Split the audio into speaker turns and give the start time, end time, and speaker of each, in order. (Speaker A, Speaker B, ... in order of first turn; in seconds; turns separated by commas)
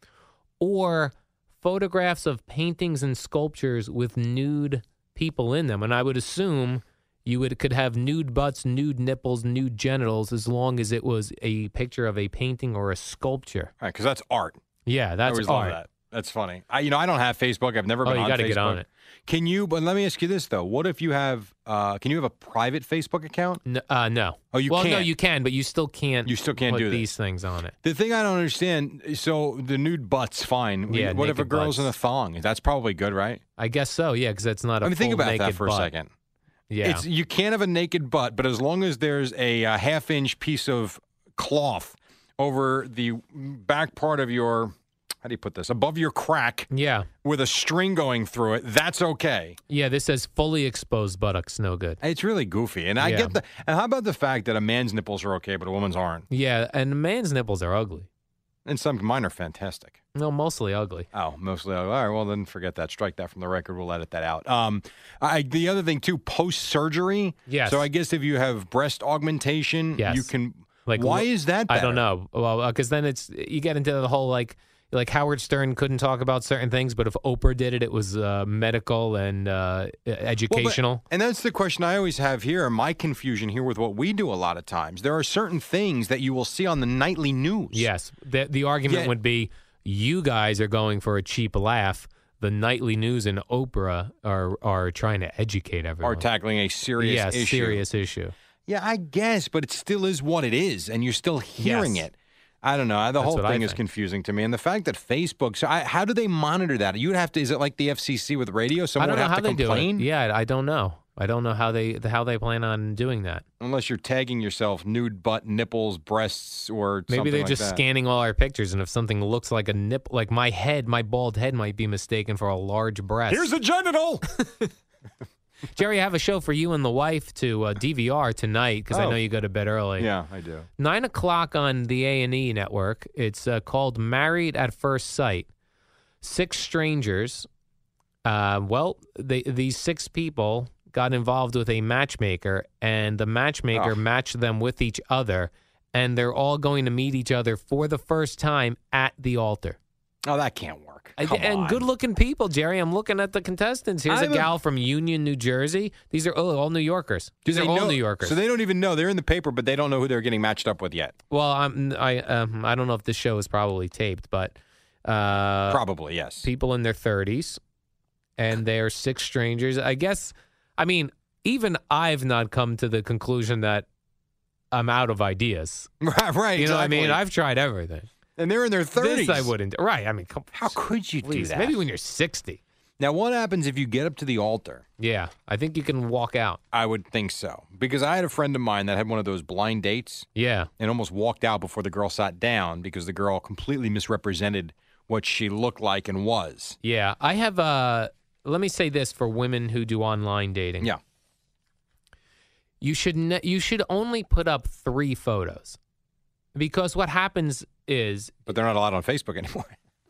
Speaker A: 0.6-13.7, Speaker B: 13.8-14.6, Speaker A: 14.8-15.8, Speaker B: 15.3-23.6, Speaker A: 18.0-18.8, Speaker A: 23.6-27.7, Speaker B: 24.5-25.1, Speaker B: 26.2-27.1, Speaker B: 27.8-33.4, Speaker A: 30.9-31.9, Speaker A: 33.6-35.9, Speaker B: 34.8-36.1, Speaker A: 36.7-37.0, Speaker B: 36.8-46.7, Speaker A: 46.7-47.1, Speaker B: 47.2-49.6, Speaker A: 49.7-52.0, Speaker B: 52.0-56.2, Speaker A: 53.0-53.4, Speaker A: 56.3-58.1, Speaker B: 58.6-60.0, Speaker A: 60.1-61.1, Speaker B: 61.1-72.0, Speaker A: 67.5-67.8, Speaker A: 70.0-70.3, Speaker A: 70.8-81.0, Speaker B: 80.5-87.9, Speaker A: 87.7-96.2, Speaker B: 88.9-89.1, Speaker B: 96.0-97.8, Speaker A: 97.0-98.3, Speaker B: 98.7-110.1, Speaker A: 101.6-102.0, Speaker A: 103.2-103.8, Speaker A: 109.0-113.4, Speaker B: 113.6-117.8, Speaker A: 117.1-123.5, Speaker B: 123.3-124.2, Speaker A: 124.4-124.7, Speaker A: 125.7-130.1, Speaker B: 128.9-129.2, Speaker B: 130.0-130.7, Speaker A: 130.8-135.5, Speaker A: 136.2-137.5, Speaker A: 138.2-149.8, Speaker B: 150.2-151.8, Speaker A: 151.2-158.3, Speaker B: 154.1-154.5, Speaker B: 157.4-161.1, Speaker A: 161.3-165.8, Speaker B: 165.7-166.5, Speaker A: 166.4-167.6, Speaker A: 168.4-173.8, Speaker A: 174.7-175.9, Speaker B: 176.0-177.2, Speaker A: 176.6-178.1, Speaker B: 178.4-179.5, Speaker A: 178.9-182.6, Speaker B: 180.5-181.8, Speaker B: 183.0-184.8, Speaker A: 185.0-186.6, Speaker B: 186.7-190.2, Speaker A: 190.3-190.7, Speaker B: 190.8-196.8, Speaker A: 196.8-200.9, Speaker A: 202.8-205.8, Speaker A: 206.5-208.4, Speaker B: 208.5-209.7